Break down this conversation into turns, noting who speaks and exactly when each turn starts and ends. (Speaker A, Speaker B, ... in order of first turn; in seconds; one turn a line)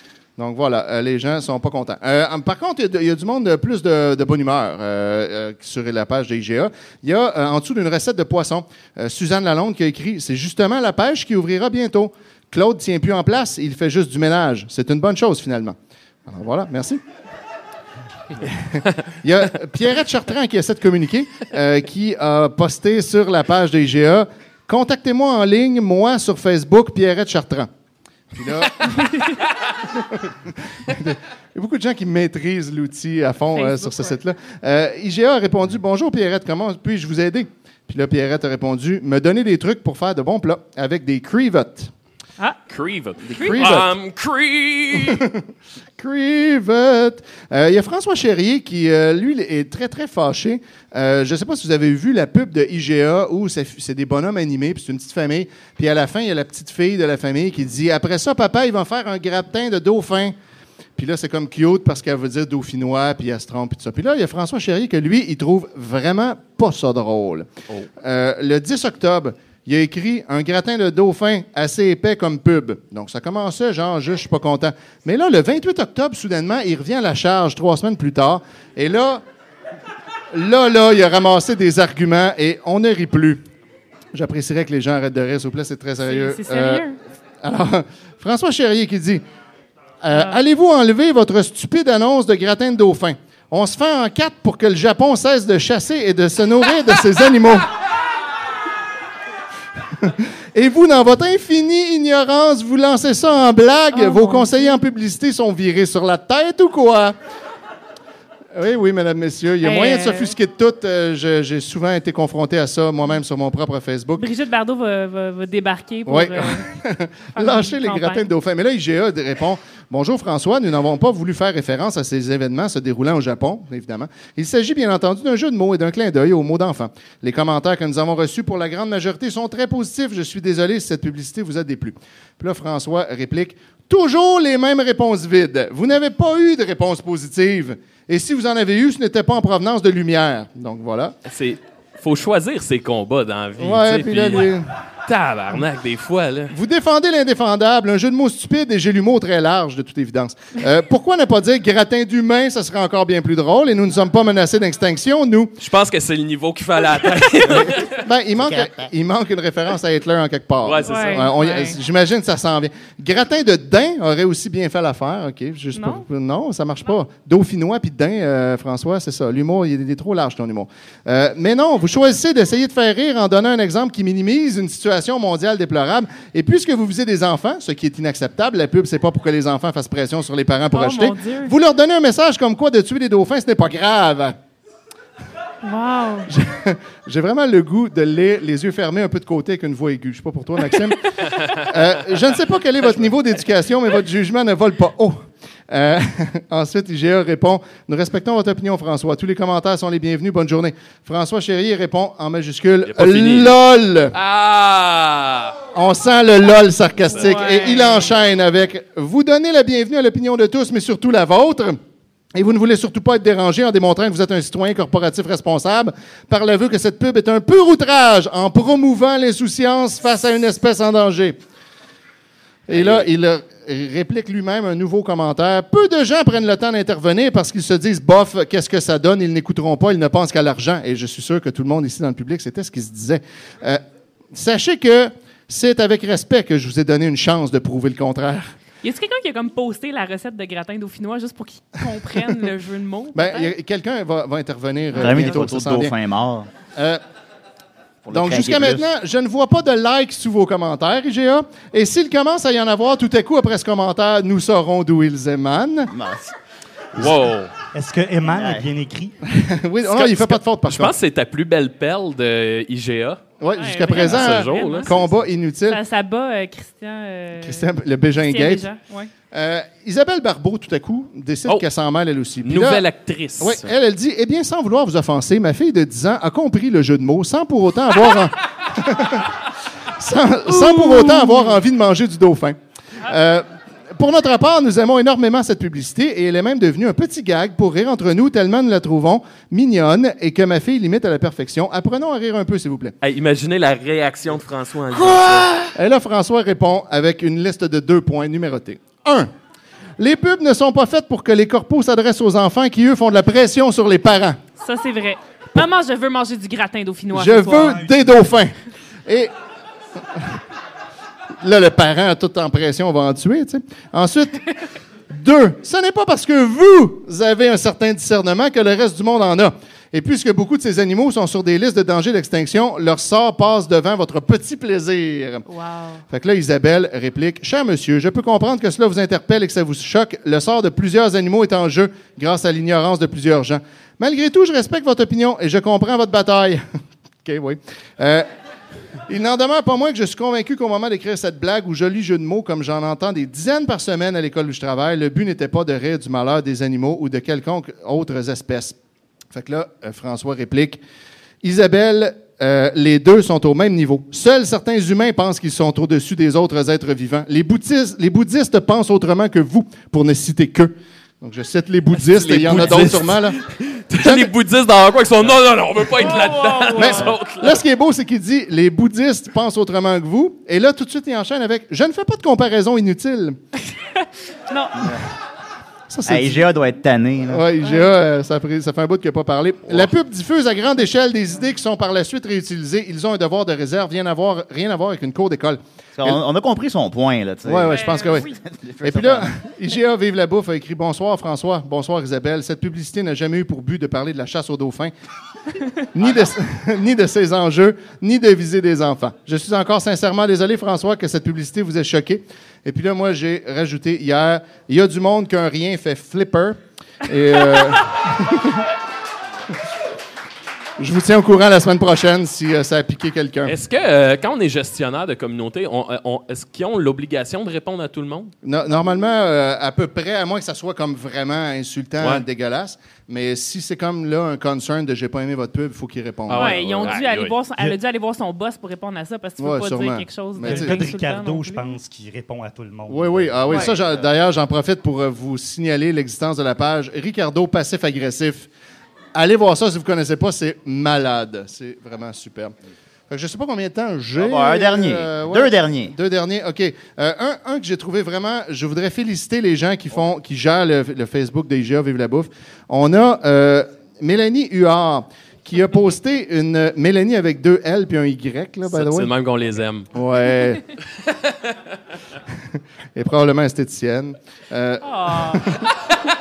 Speaker A: 0.4-17.0
Speaker A: 18.4-27.7
Speaker A: 28.3-29.0
Speaker A: 29.9-41.9
Speaker B: 33.5-34.2
Speaker C: 42.7-45.2
Speaker A: 43.3-43.9
Speaker B: 43.3-43.6
Speaker A: 44.9-45.4
Speaker A: 46.0-60.3
Speaker A: 61.0-67.5
Speaker A: 68.0-79.2
Speaker A: 80.3-83.4
Speaker A: 84.1-86.8
Speaker B: 86.0-87.0
Speaker A: 87.4-89.2
Speaker A: 90.0-97.7
Speaker B: 90.1-90.4
Speaker A: 99.9-107.1
Speaker B: 103.9-104.8
Speaker A: 108.5-114.3
Speaker B: 109.6-110.3
Speaker B: 114.2-116.7
Speaker A: 116.0-141.2
Speaker B: 117.3-118.3
Speaker C: 141.2-144.5
Speaker A: 143.6-144.7
Speaker C: 145.1-146.5
Speaker A: 146.5-155.5
Speaker C: 155.6-158.0
Speaker A: 157.8-184.3
Speaker D: 158.4-158.9
Speaker C: 160.6-161.2
Speaker B: 160.8-161.8
Speaker B: 165.7-166.0
Speaker B: 180.7-181.5
Speaker B: 185.6-186.3
Speaker A: 186.3-204.1
Speaker C: 202.8-203.6
Speaker C: 204.1-205.6
Speaker A: 205.7-211.8
Speaker B: 207.1-208.1
Speaker A: 212.3-221.4
Speaker A: 222.7-233.8
Speaker A: 234.3-238.5
Speaker B: 238.8-243.5
Speaker A: 243.1-245.9
Speaker D: 244.9-246.5
Speaker A: 246.7-247.0
Speaker D: 248.0-248.8
Speaker A: 248.1-255.9
Speaker D: 255.9-256.3
Speaker C: 256.9-257.5
Speaker E: 257.7-259.1
Speaker D: 258.3-258.7
Speaker A: 259.3-260.9
Speaker C: 259.8-263.2
Speaker A: 263.4-265.8
Speaker B: 263.5-265.1
Speaker C: 263.9-264.9
Speaker B: 265.6-267.7
Speaker A: 267.4-268.7
Speaker B: 268.2-269.1
Speaker A: 269.3-272.8
Speaker C: 272.4-273.7
Speaker A: 273.4-279.3
Speaker A: 279.9-292.9
Speaker B: 280.9-281.3
Speaker C: 293.0-295.7
Speaker A: 295.0-299.3
Speaker A: 300.0-304.4
Speaker B: 304.6-307.8
Speaker A: 307.1-308.5
Speaker A: 309.1-309.3
Speaker A: 311.4-314.5
Speaker A: 315.1-325.4
Speaker B: 325.5-326.0
Speaker A: 326.1-336.6
Speaker A: 337.2-338.2
Speaker A: 339.1-348.8
Speaker A: 349.3-350.8
Speaker A: 351.4-363.4
Speaker C: 362.0-367.6
Speaker A: 364.0-364.3
Speaker B: 366.0-367.1
Speaker A: 366.7-373.4
Speaker B: 374.5-374.9
Speaker A: 375.9-376.5
Speaker D: 376.1-377.4
Speaker A: 377.3-386.2
Speaker B: 377.6-377.9
Speaker D: 386.0-389.3
Speaker A: 387.4-388.3
Speaker B: 387.7-388.4
Speaker A: 388.8-394.9
Speaker A: 395.9-408.6
Speaker D: 396.0-396.3
Speaker A: 410.8-413.6
Speaker C: 413.4-418.3
Speaker A: 418.4-427.0
Speaker C: 422.0-422.2
Speaker C: 426.3-427.4
Speaker B: 426.3-431.8
Speaker A: 429.4-430.8
Speaker E: 430.4-433.7
Speaker A: 432.9-438.5
Speaker A: 439.1-442.5
Speaker A: 443.1-459.1
Speaker D: 444.2-445.9
Speaker C: 458.7-459.9
Speaker A: 459.9-460.6
Speaker C: 461.1-461.4
Speaker A: 462.9-465.6
Speaker B: 464.8-465.5